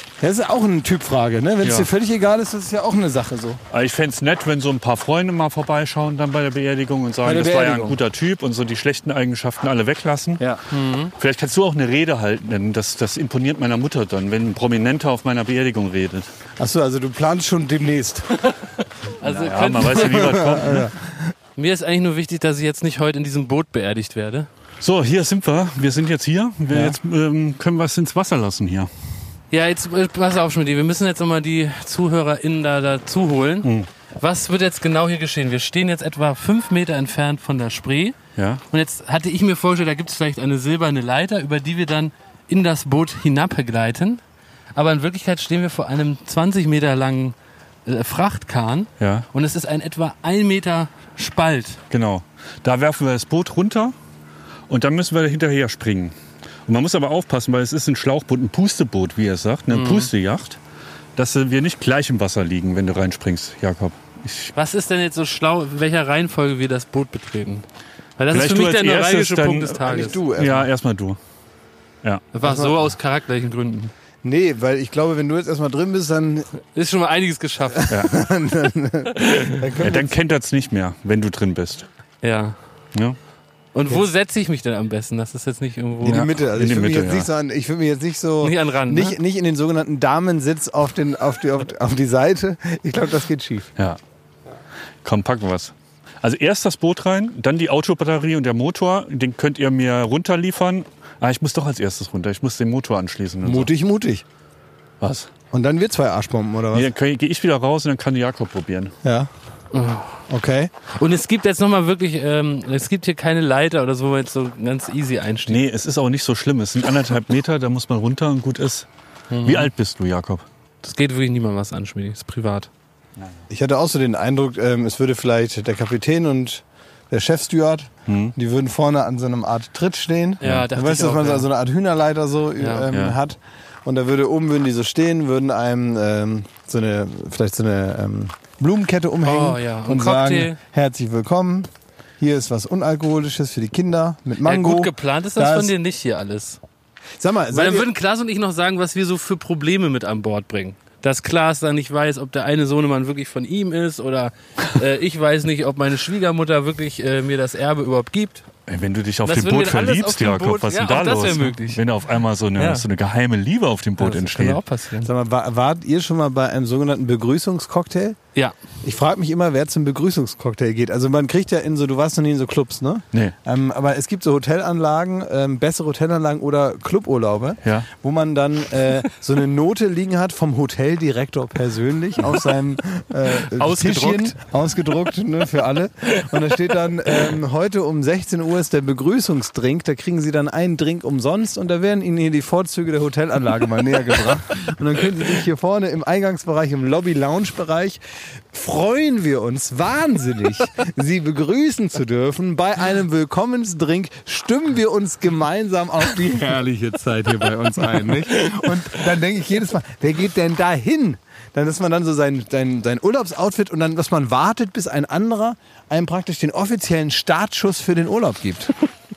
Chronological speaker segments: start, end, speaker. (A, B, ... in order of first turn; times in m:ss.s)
0:00.2-0:03.6 A
0:01.6-0:01.9 B
0:03.7-0:10.4 B
0:07.2-0:08.0 A
0:10.7-0:11.1 C
0:11.2-0:16.3 B
0:16.6-0:18.3 A
0:19.2-0:20.4 C
0:19.2-0:20.9 B
0:19.9-0:21.3 A
0:21.6-0:24.5 C
0:24.8-0:28.9 B
0:26.7-0:27.0 A
0:29.5-0:38.2 C
0:33.6-0:33.9 B
0:38.4-0:38.6 B
0:38.7-0:44.2 C
0:44.8-0:51.8 C
0:49.0-0:49.3 B
0:51.9-0:54.0 B
0:54.7-0:56.2 B
0:56.7-1:00.6 B
0:59.7-1:00.1 C
1:01.2-1:04.5 B
1:04.6-1:07.7 C
1:08.2-1:10.2 C
1:08.3-1:11.2 B
1:09.8-1:10.7 A
1:12.3-1:13.9 C
1:12.4-1:12.8 A
1:14.2-1:16.5 A
1:16.8-1:17.9 C
1:17.7-1:20.1 A
1:17.9-1:18.2 B
1:19.2-1:19.6 C
1:19.8-1:21.9 B
1:22.2-1:22.6 C
1:23.7-1:26.3 C
1:26.0-1:33.7 A
1:26.1-1:27.3 B
1:28.4-1:29.2 C
1:35.0-1:43.7 B
1:43.4-1:44.2 A
1:45.0-1:45.3 B
1:45.5-1:46.9 A
1:46.7-1:49.0 B
1:49.0-1:49.3 A
1:49.7-1:50.2 C
1:50.3-1:50.7 A
1:50.9-1:55.6 C
1:55.5-1:58.9 B
1:59.3-1:59.7 C
1:59.4-2:00.4 B
2:00.8-2:02.7 C
2:03.5-2:25.7 A
2:08.1-2:08.4 B
2:10.4-2:11.5 C
2:10.4-2:10.7 B
2:12.6-2:12.8 C
2:12.9-2:13.2 B
2:19.2-2:20.6 C
2:24.4-2:26.6 C
2:27.2-2:27.9 A
2:27.5-2:38.5 C
2:38.7-2:44.6 B
2:39.2-2:41.8 C
2:42.6-2:42.8 C
2:44.0-2:45.1 C
2:45.0-2:48.2 A
2:48.8-3:18.0 A
2:57.6-2:57.9 B
3:03.6-3:04.3 C
3:18.5-3:38.7 A